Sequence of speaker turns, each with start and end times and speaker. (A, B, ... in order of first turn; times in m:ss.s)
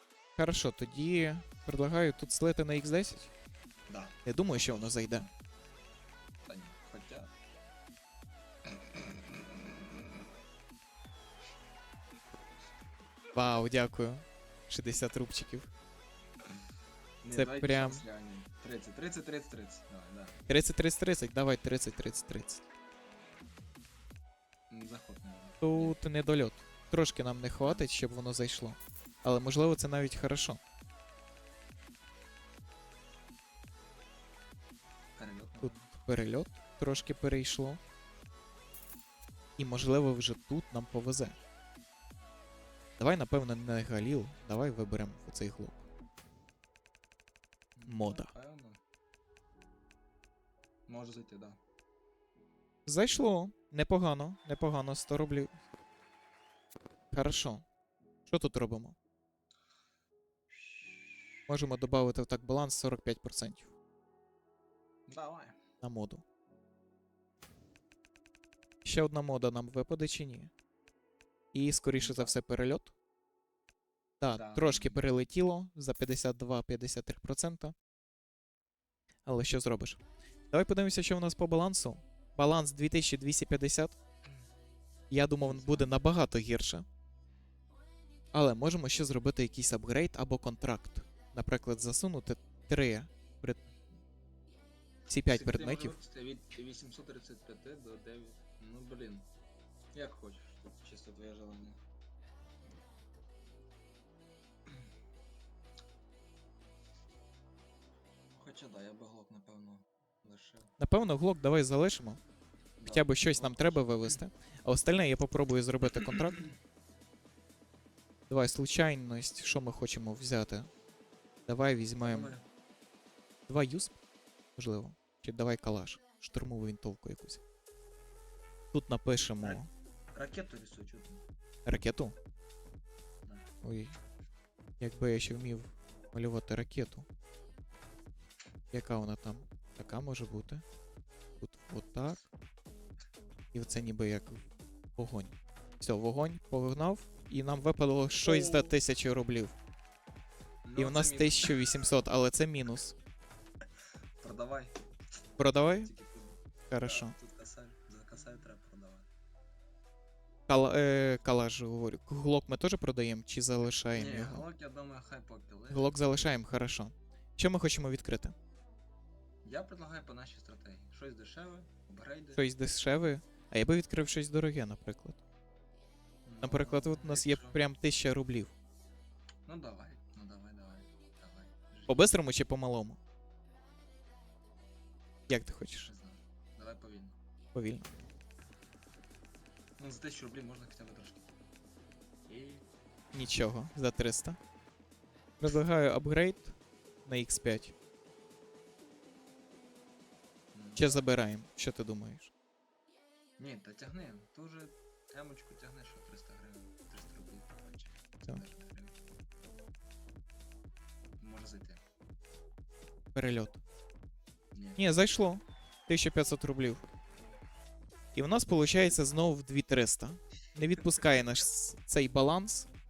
0:00.4-0:03.3 A
0:03.9-0:05.3 B
0:04.2-0:05.3 A
0:06.5-0:07.3 B
0:13.3-0:15.7 A
0:17.2-0:20.4 B
0:17.3-0:18.0 A
0:20.5-0:22.6 A
0:24.7-0:26.0 B
0:25.6-0:30.6 A
0:27.6-0:27.9 B
0:35.2-0:35.9 B
0:35.6-0:37.8 A
0:39.6-0:41.4 A
0:43.0-0:45.8 A
0:47.8-0:48.8 B
0:47.9-0:48.3 A
0:50.9-0:51.6 B
0:52.9-0:55.6 A
0:57.1-0:57.6 A
0:58.3-0:59.0 A
1:00.5-1:01.4 B
1:01.5-1:03.7 A
1:05.1-1:05.6 B
1:05.8-1:06.2 A
1:08.8-1:10.5 A
1:11.5-1:12.9 A
1:12.0-1:12.4 B
1:14.2-1:17.8 A
1:14.3-1:15.1 B
1:19.3-1:24.0 A
1:25.1-1:26.9 A
1:25.4-1:26.0 B
1:28.3-1:33.6 A
1:35.1-1:36.0 A
1:35.3-1:39.3 B
1:39.9-1:41.8 B
1:48.4-1:50.7 B
1:50.8-1:52.2 A
1:52.8-1:54.2 B
1:52.9-1:56.4 A
1:56.0-1:56.5 B
1:58.3-2:00.7 A
2:01.5-2:02.3 A
2:02.0-2:02.4 B
2:03.5-2:04.0 A
2:04.6-2:07.4 A
2:08.7-2:09.7 A
2:10.1-2:11.2 B
2:11.7-2:12.2 A
2:13.6-2:14.0 A
2:14.8-2:17.1 A
2:18.7-2:20.6 A
2:21.4-2:22.2 A
2:23.5-2:24.4 A
2:25.0-2:29.6 A
2:28.2-2:28.7 B
2:30.6-2:31.8 B
2:30.8-2:33.0 A
2:34.2-2:34.8 B
2:35.4-2:35.9 A
2:35.7-2:39.1 B
2:36.7-2:37.1 A
2:40.5-2:44.4 A
2:43.9-2:46.2 B
2:45.7-2:48.4 A
2:49.4-2:52.4 B
2:52.4-2:55.2 A
2:56.3-2:57.6 B
2:56.4-2:58.6 A
2:59.5-3:02.1 B
3:01.9-3:03.0 A
3:05.3-3:05.9 A
3:05.8-3:07.2 B
3:07.5-3:07.9 A
3:09.8-3:11.3 B
3:12.3-3:12.7 B
3:13.1-3:14.4 A
3:15.4-3:17.8 A
3:20.5-3:21.0 B
3:20.8-3:22.3 A
3:23.4-3:29.0 B
3:31.2-3:31.8 B
3:33.1-3:33.6 A
3:34.5-3:34.8 B
3:34.8-3:36.8 A
3:38.1-3:42.7 A